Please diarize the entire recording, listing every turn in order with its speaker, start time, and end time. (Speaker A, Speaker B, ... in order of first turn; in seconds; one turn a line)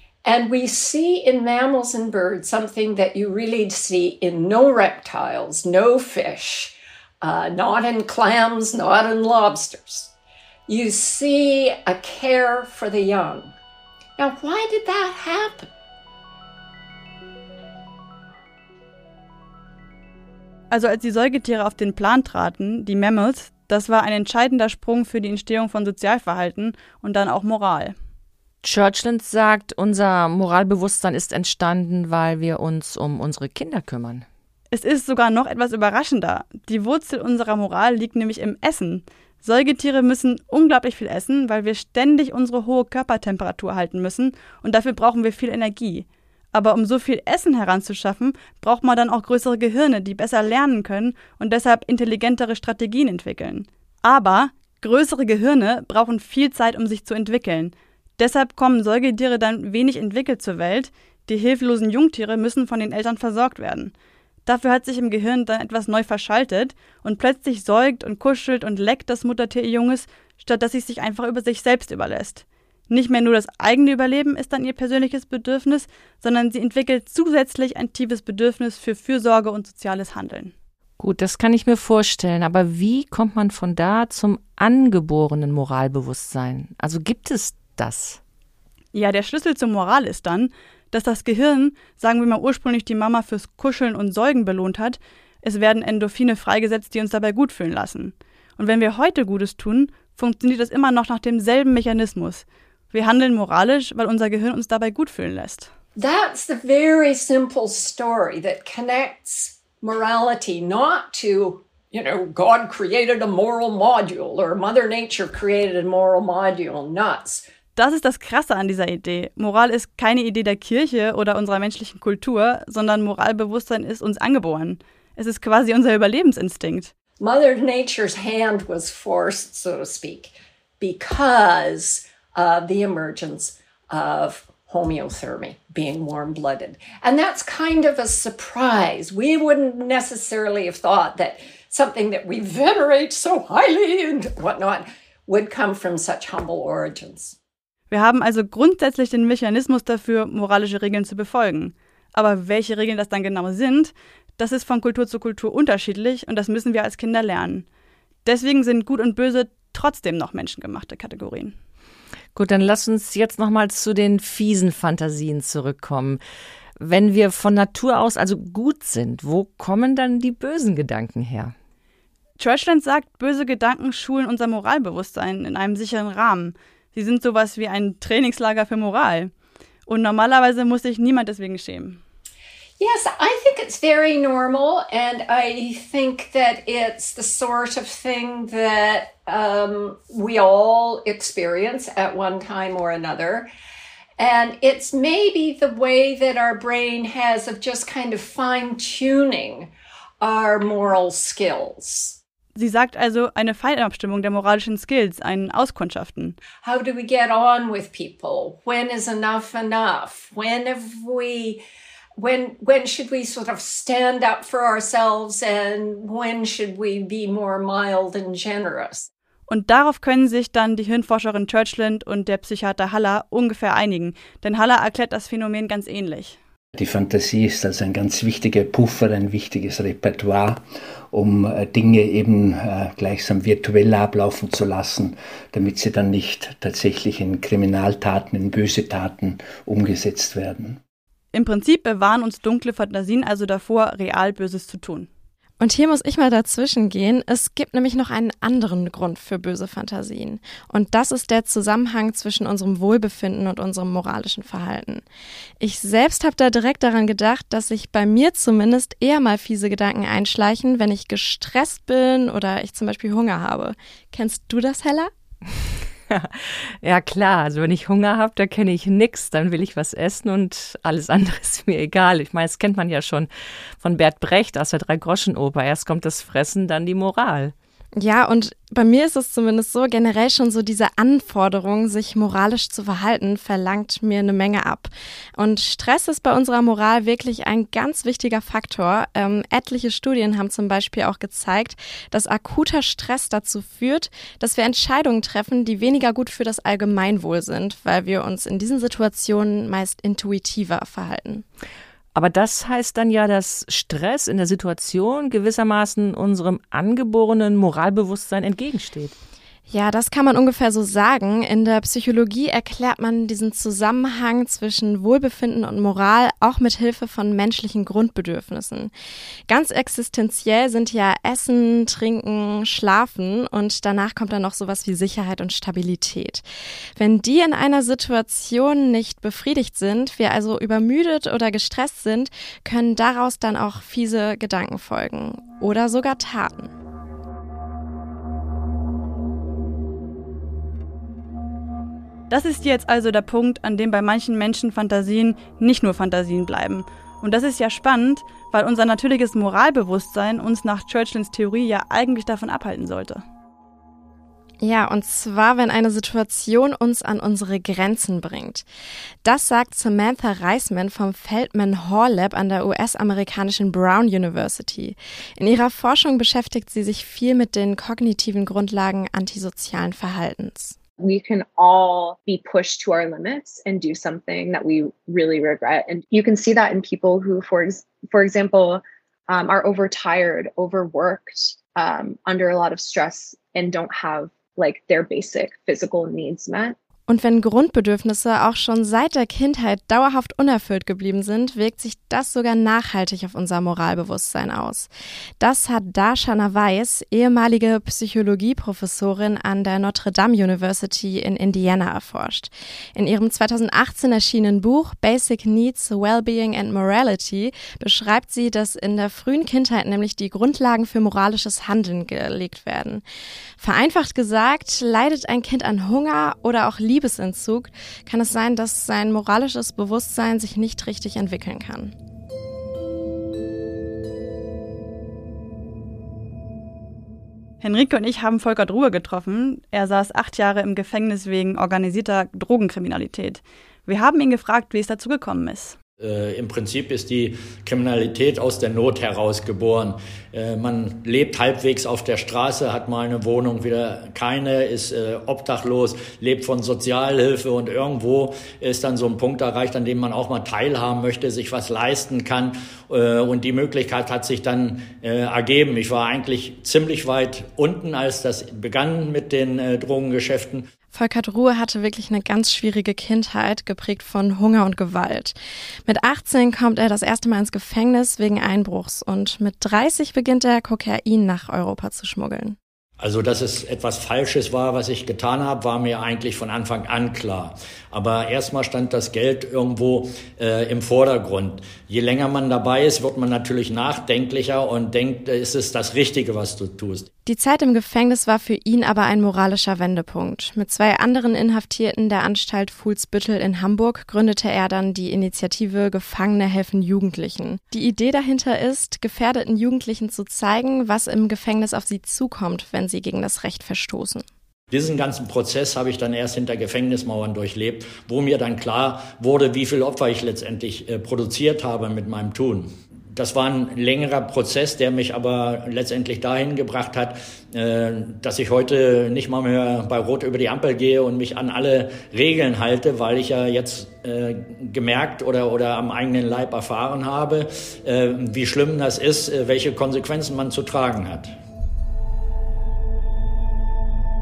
Speaker A: 0.2-10.1
Speaker A: 10.7-13.6
Speaker A: 14.2-15.7
Speaker B: 20.7-27.9
Speaker C: 28.6-34.2
Speaker B: 34.7-63.9
Speaker B: 64.5-80.5
Speaker C: 81.0-88.2
Speaker B: 88.9-105.7
Speaker A: 106.0-117.5
Speaker B: 117.8-126.9
Speaker A: 127.2-147.4
Speaker B: 147.9-157.7
Speaker B: 158.2-161.6
Speaker C: 162.3-166.2
Speaker C: 166.8-171.5
Speaker B: 172.4-179.3
Speaker B: 179.9-182.0
Speaker A: 182.8-193.5
Speaker A: 194.2-199.7
Speaker A: 200.2-202.2
Speaker B: 202.6-206.4
Speaker A: 206.6-211.6
Speaker A: 212.2-219.1
Speaker B: 219.5-226.4
Speaker D: 226.8-240.8
Speaker B: 241.3-245.1
Speaker E: 245.6-255.0
Speaker E: 255.6-265.1
Speaker C: 266.1-273.3
Speaker C: 273.8-277.5
Speaker E: 278.0-301.5
Speaker C: 302.1-309.2
Speaker E: 309.7-318.9
Speaker E: 319.5-326.4
Speaker E: 327.0-336.7
Speaker B: 342.3-353.2
Speaker E: 354.6-358.7
Speaker E: 359.2-370.8
Speaker F: 371.0-386.8
Speaker E: 387.1-413.0
Speaker E: 413.6-421.9
Speaker B: 427.6-435.8
Speaker G: 436.0-460.7
Speaker E: 460.9-472.6
Speaker G: 473.0-487.1
Speaker E: 487.3-504.2
Speaker G: 504.7-531.4